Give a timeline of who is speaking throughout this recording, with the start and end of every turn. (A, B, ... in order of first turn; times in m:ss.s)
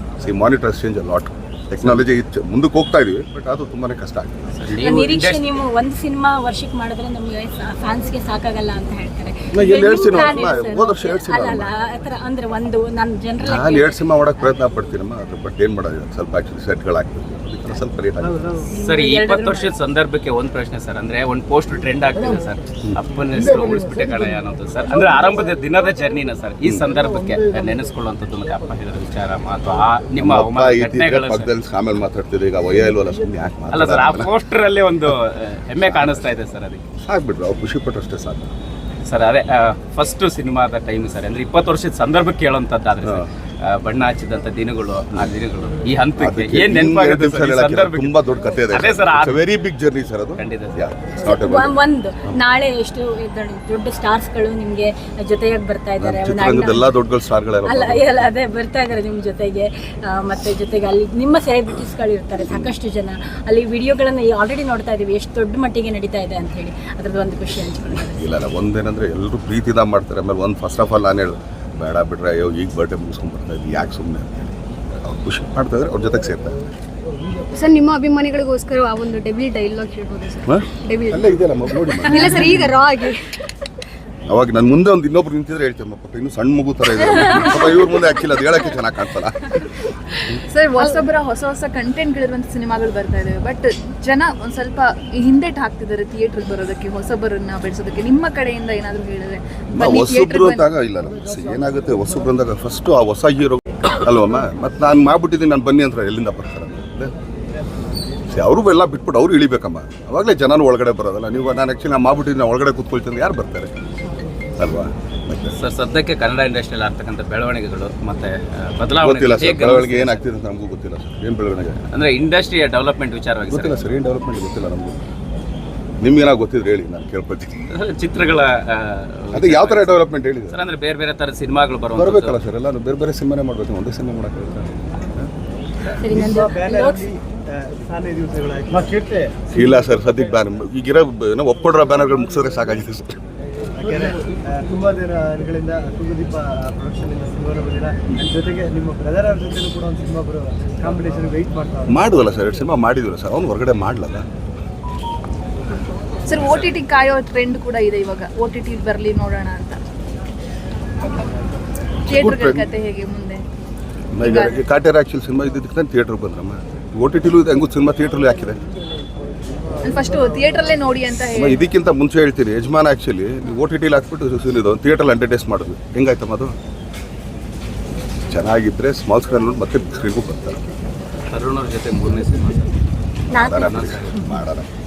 0:00.2-0:05.0 A
0:01.8-0:02.0 B
0:04.6-0:05.5 B
0:04.8-0:14.0 C
0:09.5-0:11.7 A
0:13.4-0:18.3 A
0:18.2-0:18.7 D
0:18.7-0:19.7 C
0:18.8-0:31.5 B
0:30.2-0:34.3 A
0:33.7-0:36.8 B
0:35.8-0:36.4 A
0:37.0-0:38.5 A
0:39.0-0:49.4 B
0:43.0-0:43.3 A
0:46.2-0:52.4 A
0:50.4-0:50.8 B
0:51.2-0:56.9 C
0:56.0-0:58.3 A
0:57.7-1:08.3 C
1:02.4-1:02.7 A
1:07.9-1:16.6 A
1:17.5-1:23.3 E
1:20.5-1:22.8 A
1:24.3-1:30.4 A
1:30.5-1:40.7 F
1:39.7-1:47.1 A
1:48.3-1:53.7 A
1:54.6-1:55.6 A
1:55.6-2:00.2 B
1:59.0-2:01.9 A
2:01.9-2:03.8 B
2:03.5-2:05.0 A
2:06.0-2:07.6 A
2:07.7-2:12.4 B
2:09.3-2:10.6 A
2:12.0-2:15.3 A
2:16.0-2:17.1 C
2:16.0-2:19.4 D
2:19.5-2:23.2 A
2:23.8-2:32.0 D
2:31.9-2:34.2 A
2:36.3-2:39.8 F
2:42.1-2:42.7 A
2:42.1-2:43.4 F
2:44.1-2:48.6 A
2:44.2-2:44.6 F
2:49.8-2:51.6 F
2:51.3-2:56.5 A
2:58.3-3:00.6 A
3:01.3-3:02.7 B
3:03.3-3:03.8 C
3:03.3-3:04.7 A
3:03.5-3:04.2 B